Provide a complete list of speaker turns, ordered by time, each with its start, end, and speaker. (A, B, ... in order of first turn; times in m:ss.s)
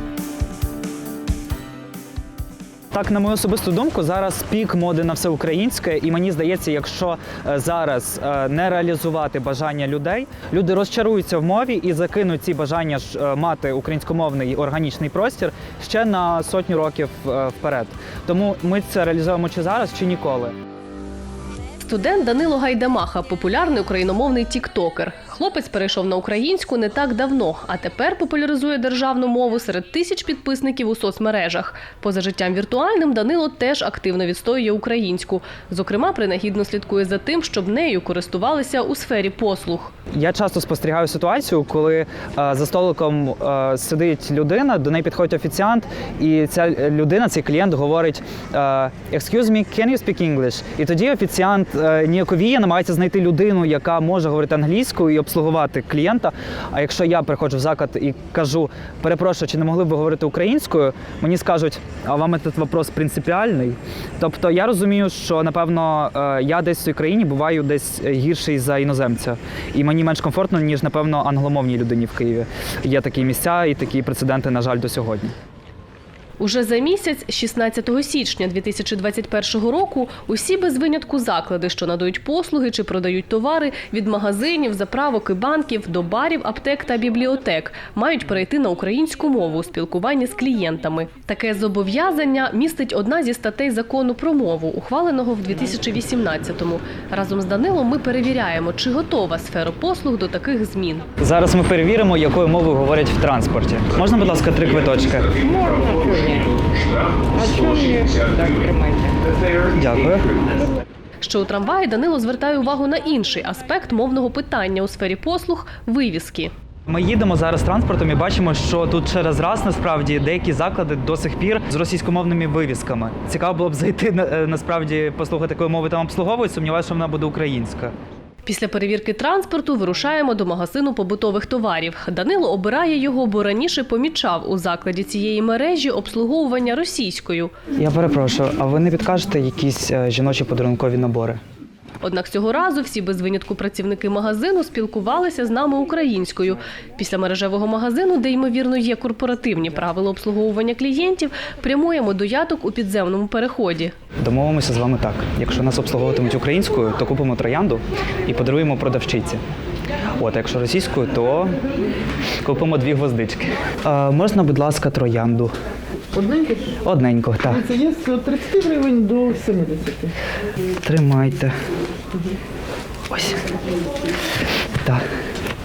0:02.9-0:20.5 A
0:21.8-0:39.9 B
0:40.1-1:15.3 A
1:16.4-1:41.1 B
1:41.2-1:45.4 A
1:45.4-1:46.6 C
1:47.3-1:49.1 C
1:49.7-1:50.2 A
1:51.2-1:56.5 B
1:56.9-2:07.9 A
2:08.4-2:17.5 B
2:17.8-2:21.4 A
2:22.0-2:33.9 B
2:34.2-2:39.4 A
2:40.2-2:41.5 A
2:42.4-2:45.5 A
2:46.1-2:46.8 C
2:46.8-2:47.6 A
2:47.5-2:50.1 C
2:50.8-2:51.5 A
2:53.1-2:53.4 A